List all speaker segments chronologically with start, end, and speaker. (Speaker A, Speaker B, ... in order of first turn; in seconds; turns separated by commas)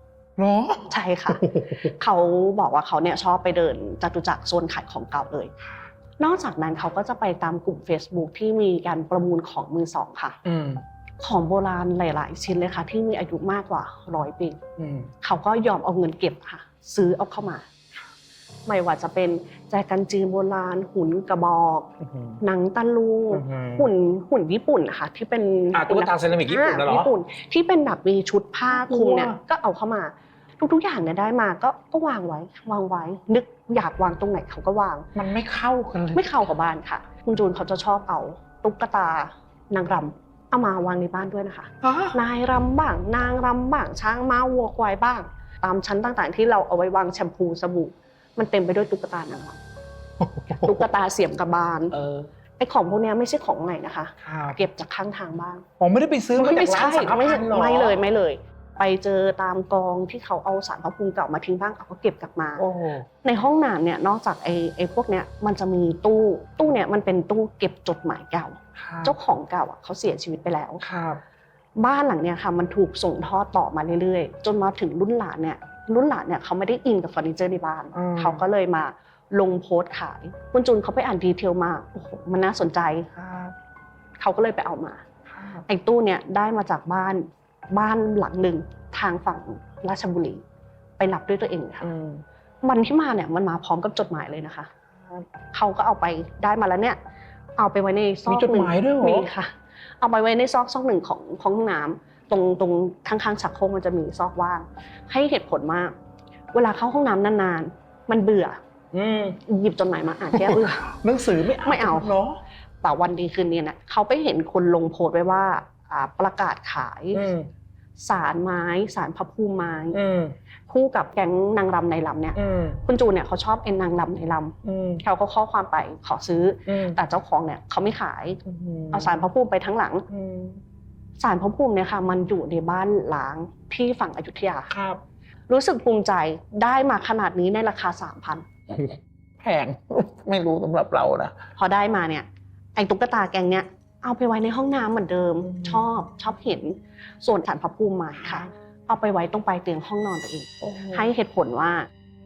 Speaker A: 0.4-1.7, Speaker B: 0.9-5.5, Speaker B: 6.2-10.4, Speaker A: 10.4-10.8, Speaker B: 11.2-14.6, Speaker A: 14.8-15.1, Speaker B: 15.2-17.7, Speaker B: 18.7-21.9, Speaker A: 22.0-22.4, Speaker B: 22.4-35.1, Speaker A: 23.3-23.9, Speaker A: 25.7-27.1, Speaker A: 28.7-29.4, Speaker A: 35.1-36.3, Speaker B: 36.1-49.6, Speaker A: 41.8-42.2, Speaker A: 50.2-50.7, Speaker B: 50.5-52.0, Speaker A: 51.9-52.3, Speaker B: 52.6-55.6, Speaker A: 54.2-54.6, Speaker A: 55.8-58.0, Speaker B: 56.4-62.6, Speaker A: 62.6-63.0, Speaker B: 63.2-70.8, Speaker A: 68.8-69.2, Speaker A: 70.8-71.2, Speaker B: 71.8-83.1, Speaker A: 77.9-78.4, Speaker A: 83.2-83.5, Speaker B: 84.2-85.0, Speaker A: 85.3-85.6, Speaker B: 85.6-90.4, Speaker B: 91.0-91.9, Speaker A: 91.8-92.2, Speaker B: 92.6-94.7, Speaker A: 95.0-95.2, Speaker B: 95.5-97.0, Speaker B: 97.6-105.9, Speaker A: 98.3-99.3, Speaker B: 106.5-108.6, Speaker A: 108.9-109.4, Speaker B: 109.4-111.0, Speaker A: 110.3-112.4, Speaker B: 111.6-112.1, Speaker B: 112.8-117.2, Speaker A: 117.1-117.5, Speaker B: 118.0-120.0, Speaker A: 119.9-120.3, Speaker B: 120.7-128.4, Speaker A: 122.3-122.8, Speaker A: 124.6-125.0, Speaker A: 126.7-127.0, Speaker A: 128.4-129.2, Speaker B: 128.9-130.1, Speaker A: 130.1-130.6, Speaker B: 131.2-134.7, Speaker A: 134.7-135.0, Speaker B: 135.5-138.5, Speaker A: 138.7-141.3, Speaker B: 141.6-151.9, Speaker A: 145.6-145.8, Speaker A: 150.7-151.0